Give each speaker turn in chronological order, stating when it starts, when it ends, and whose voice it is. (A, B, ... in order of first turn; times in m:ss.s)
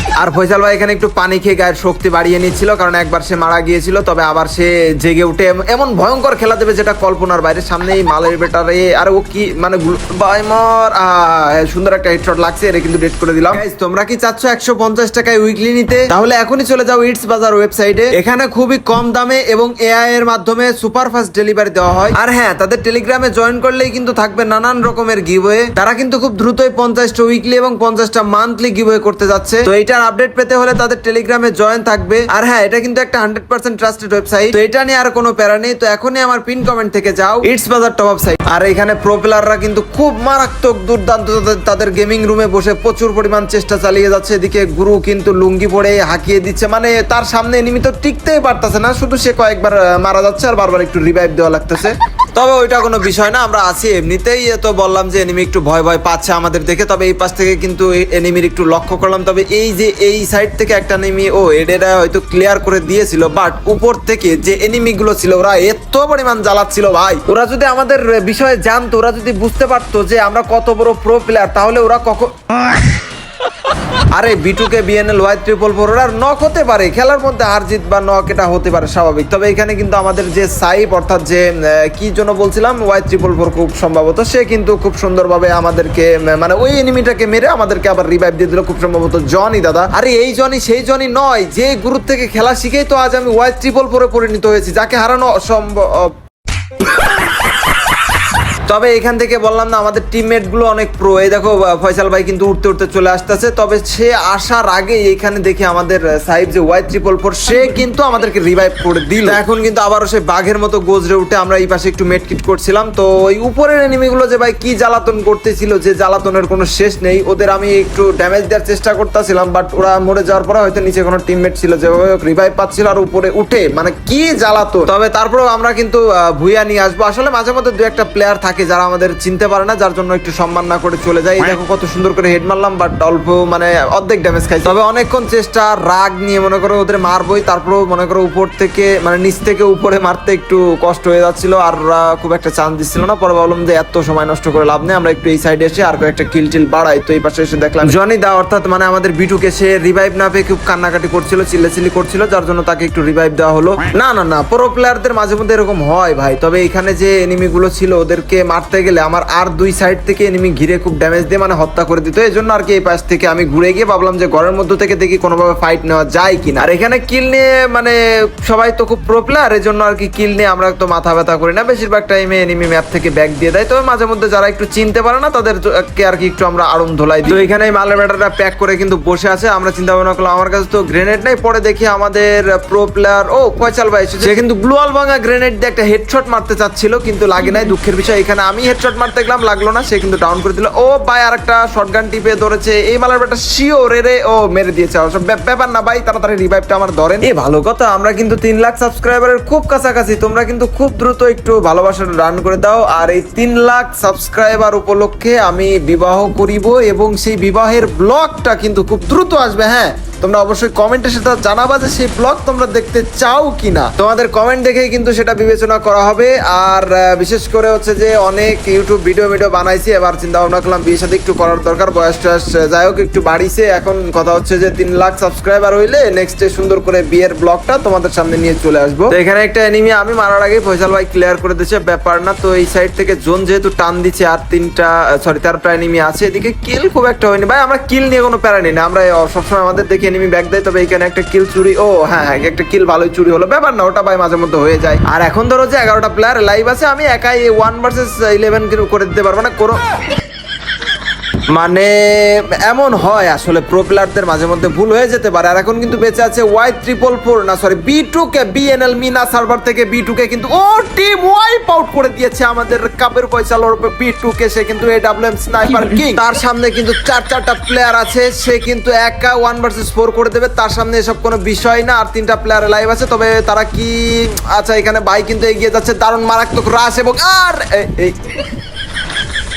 0:00.2-1:12.3 A
1:14.1-1:36.1 A
1:38.7-4:09.8 A
4:11.5-4:38.3 A